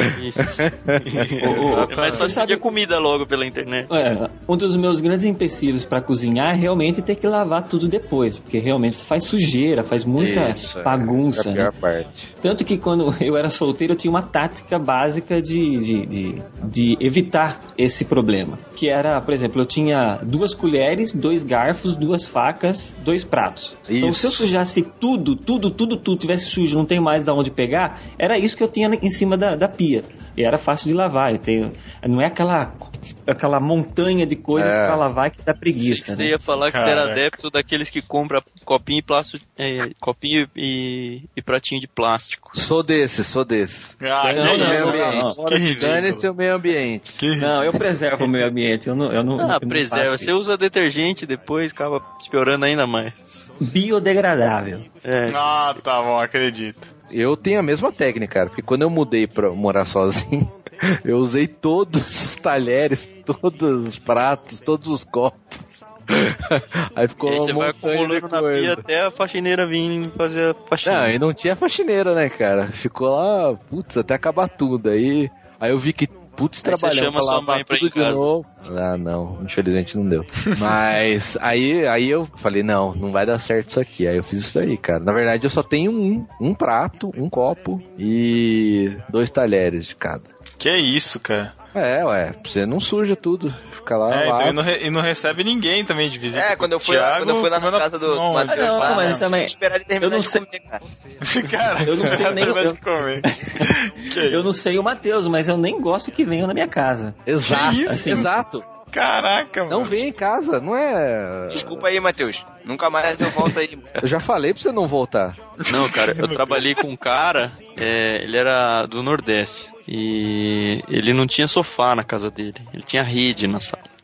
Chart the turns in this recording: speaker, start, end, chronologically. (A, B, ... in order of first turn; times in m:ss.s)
0:00.1-0:03.9 A
0:00.4-0:02.0 B
0:01.4-0:02.6 C
0:03.9-0:11.7 C
0:10.2-0:12.3 B
0:12.4-0:36.3 C
0:23.9-0:24.5 B
0:34.5-0:35.0 B
0:35.9-0:42.6 A
0:36.5-0:37.3 D
0:42.5-0:47.2 B
0:44.0-0:46.3 D
0:44.3-0:45.4 C
0:44.3-0:46.1 A
0:47.2-0:47.8 D
0:47.4-0:50.4 C
0:49.4-0:53.5 A
0:53.6-0:54.9 C
0:55.0-0:55.5 A
0:55.3-0:56.9 D
0:57.1-1:08.8 B
1:07.2-1:11.2 A
1:10.8-1:30.3 B
1:16.6-1:18.2 A
1:30.6-1:31.5 D
1:31.7-1:34.6 B
1:34.1-1:39.3 D
1:36.3-1:40.8 E
1:38.5-1:40.4 C
1:41.2-1:44.5 D
1:41.8-1:43.7 C
1:44.2-1:47.2 C
1:47.3-1:48.7 B
1:47.4-1:48.3 D
1:47.8-1:48.3 C
1:48.9-1:50.0 D
1:49.7-1:51.9 B
1:51.5-1:53.9 E
1:54.0-1:55.4 B
1:55.6-1:56.8 D
1:55.7-2:03.9 A